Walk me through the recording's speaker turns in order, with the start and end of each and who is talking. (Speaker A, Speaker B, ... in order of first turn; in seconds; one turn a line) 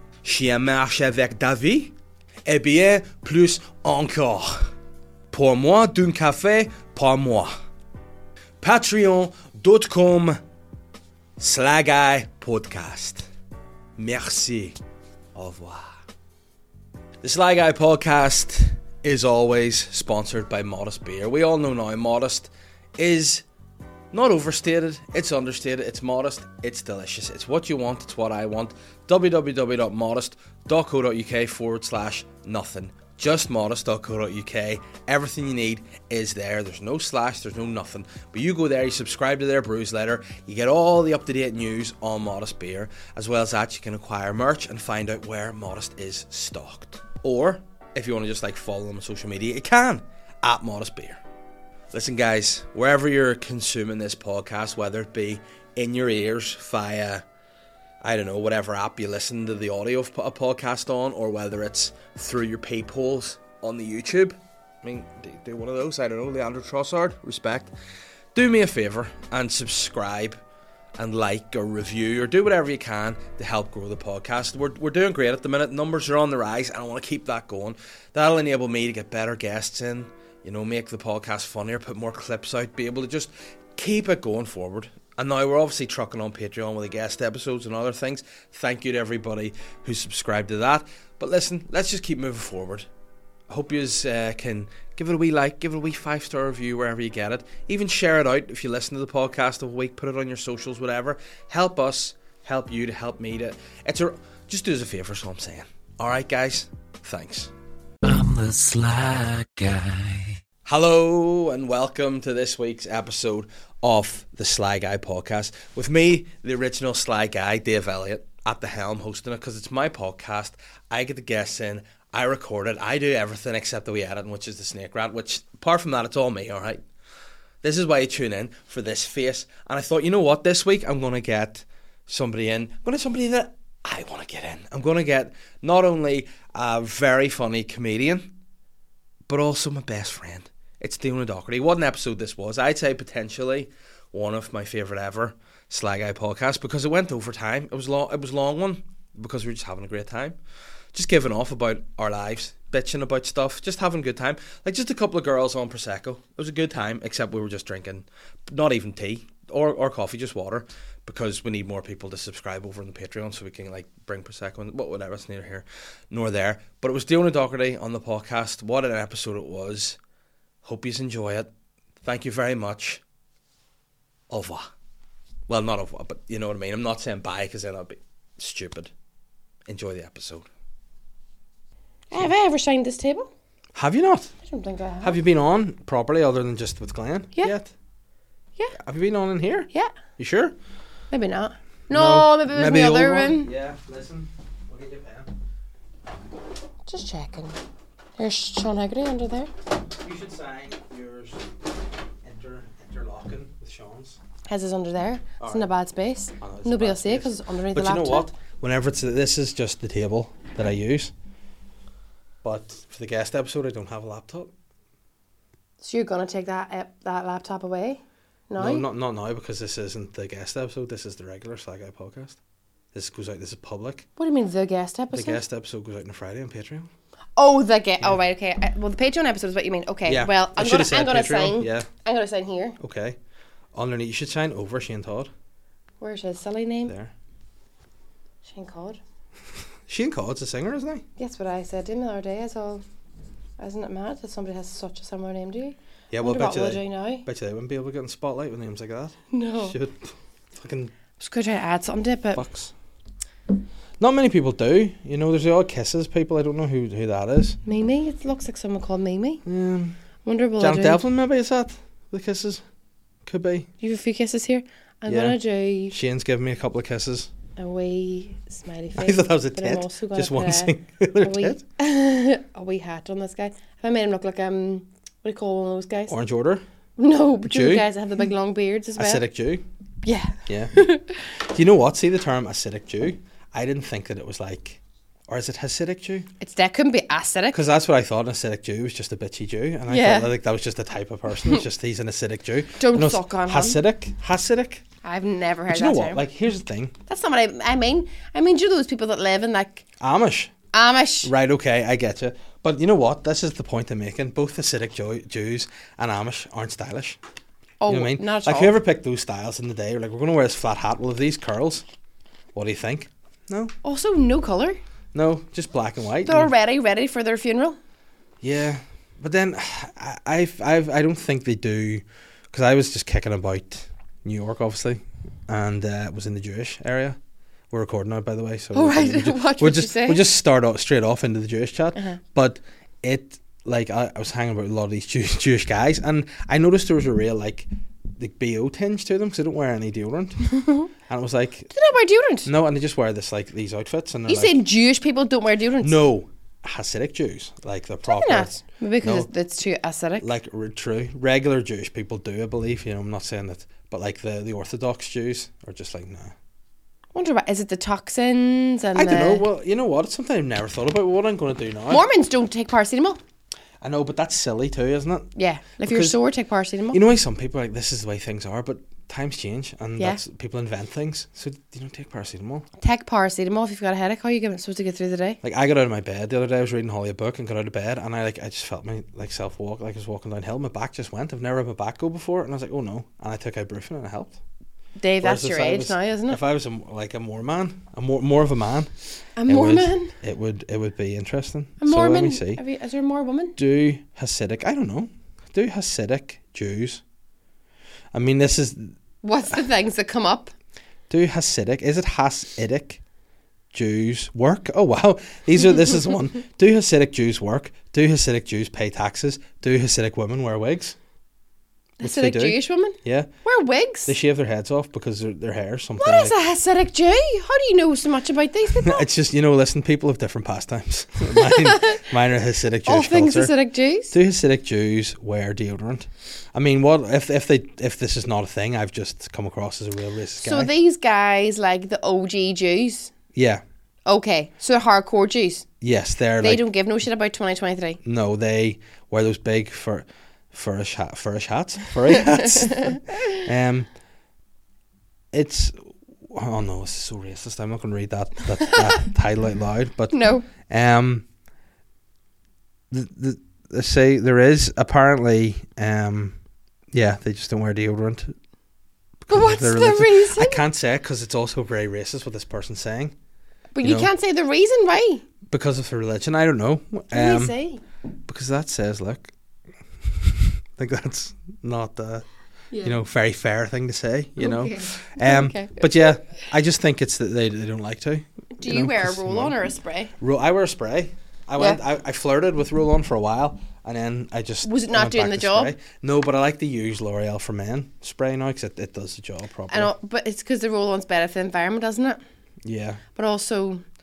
Speaker A: 0.2-1.9
Speaker A: 2.5-4.6
Speaker A: 5.3-7.5
Speaker A: 8.6-10.4
Speaker A: 11.4-13.2
Speaker A: 14.0-14.8
Speaker A: 15.3-16.0
Speaker A: 17.2-23.4
Speaker A: 24.1-51.2
Speaker A: 51.9-57.2
Speaker A: 58.0-67.7
Speaker A: 68.3-70.4
Speaker A: 71.0-92.9
Speaker A: 93.5-107.5
Speaker B: 108.0-110.4
Speaker A: 110.6-126.8
Speaker A: 127.6-138.3
Speaker A: 139.3-150.4
Speaker A: 150.9-170.0
Speaker A: 170.6-171.5
Speaker A: 172.0-173.0
Speaker A: 174.3-174.6
Speaker A: 175.5-178.9
Speaker A: 179.7-180.5
Speaker C: 182.1-183.3
Speaker A: 183.7-184.3
Speaker C: 184.4-185.2
Speaker A: 185.0-187.7
Speaker A: 188.7-190.5
Speaker C: 191.1-193.5
Speaker A: 191.9-195.3
Speaker C: 196.9-197.6
Speaker C: 198.2-199.5
Speaker A: 200.0-201.4
Speaker A: 202.2-204.2
Speaker C: 204.5-208.3
Speaker A: 205.4-205.7
Speaker A: 206.4-211.1
Speaker A: 212.4-214.5
Speaker C: 215.8-218.8
Speaker A: 218.6-222.4
Speaker A: 222.9-224.1
Speaker C: 224.2-225.4
Speaker A: 225.1-226.9
Speaker C: 227.3-232.8
Speaker A: 230.1-231.9
Speaker A: 232.8-233.2
Speaker A: 233.7-235.3
Speaker C: 236.0-236.9
Speaker A: 236.8-237.1
Speaker C: 238.4-239.0
Speaker A: 239.9-241.0
Speaker C: 241.2-242.8
Speaker C: 243.6-247.2
Speaker A: 246.1-250.9
Speaker C: 249.3-249.7
Speaker C: 251.2-252.4
Speaker A: 252.3-252.7
Speaker A: 254.0-257.6
Speaker C: 257.6-259.4
Speaker A: 259.4-259.9
Speaker C: 260.2-261.0
Speaker A: 260.6-262.6
Speaker A: 263.2-263.7
Speaker C: 263.8-265.9
Speaker A: 265.1-265.4
Speaker A: 265.9-267.3
Speaker C: 267.6-276.1
Speaker A: 268.9-271.6
Speaker A: 276.1-276.6
Speaker C: 277.0-279.2
Speaker A: 277.4-277.8
Speaker A: 279.0-279.6
Speaker C: 280.0-281.2
Speaker A: 280.4-280.8
Speaker A: 281.4-286.3
Speaker C: 286.4-287.6
Speaker A: 287.5-294.8
Speaker C: 289.9-290.3
Speaker C: 292.8-293.8
Speaker C: 295.0-296.2
Speaker A: 295.7-296.9
Speaker C: 297.1-299.8
Speaker A: 300.0-300.5
Speaker C: 300.7-301.3
Speaker A: 301.2-307.2
Speaker C: 307.8-308.7
Speaker A: 307.9-311.8
Speaker A: 312.5-313.7
Speaker C: 313.8-314.8
Speaker A: 315.1-316.5
Speaker C: 316.2-317.8
Speaker A: 318.4-327.2
Speaker A: 327.7-340.5
Speaker C: 328.7-330.2
Speaker C: 340.6-340.9
Speaker A: 341.1-341.7
Speaker C: 341.7-342.5
Speaker A: 342.4-344.6
Speaker C: 344.3-346.0
Speaker A: 345.8-349.3
Speaker C: 348.1-350.2
Speaker A: 350.2-356.3
Speaker C: 357.1-359.4
Speaker A: 358.9-362.0
Speaker C: 361.9-363.2
Speaker A: 363.8-365.3
Speaker C: 365.3-367.0
Speaker A: 365.8-366.2
Speaker A: 366.9-372.7
Speaker C: 372.8-375.4
Speaker A: 375.4-384.4
Speaker C: 385.0-386.4
Speaker A: 385.2-388.9
Speaker C: 389.4-390.1
Speaker A: 389.5-392.6
Speaker C: 391.8-393.6
Speaker A: 393.6-397.0
Speaker A: 398.1-399.0
Speaker C: 399.2-400.5
Speaker A: 401.1-403.0
Speaker A: 403.7-411.0
Speaker A: 412.0-413.3
Speaker C: 412.0-414.1
Speaker A: 414.1-416.4
Speaker C: 416.0-419.1
Speaker A: 418.8-423.5
Speaker C: 421.3-422.0
Speaker C: 422.8-424.1
Speaker A: 424.1-430.7
Speaker C: 430.4-433.1
Speaker A: 433.3-433.6
Speaker C: 434.1-435.7
Speaker A: 435.8-436.7
Speaker C: 436.4-438.0
Speaker A: 438.0-443.9
Speaker C: 442.4-443.3
Speaker A: 445.3-451.2
Speaker C: 448.7-449.0
Speaker C: 450.1-450.5
Speaker A: 452.9-456.4
Speaker A: 456.9-458.4
Speaker A: 459.2-463.1
Speaker C: 459.3-460.6
Speaker C: 463.7-465.2
Speaker A: 463.8-464.1
Speaker A: 465.5-467.5
Speaker C: 467.1-467.8
Speaker A: 468.3-469.3
Speaker A: 470.0-472.2
Speaker C: 472.7-473.0
Speaker A: 472.8-479.5
Speaker C: 474.4-476.3
Speaker C: 478.6-480.1
Speaker A: 480.2-489.9
Speaker C: 484.6-485.7
Speaker C: 489.7-492.2
Speaker A: 492.6-493.0
Speaker C: 493.1-493.8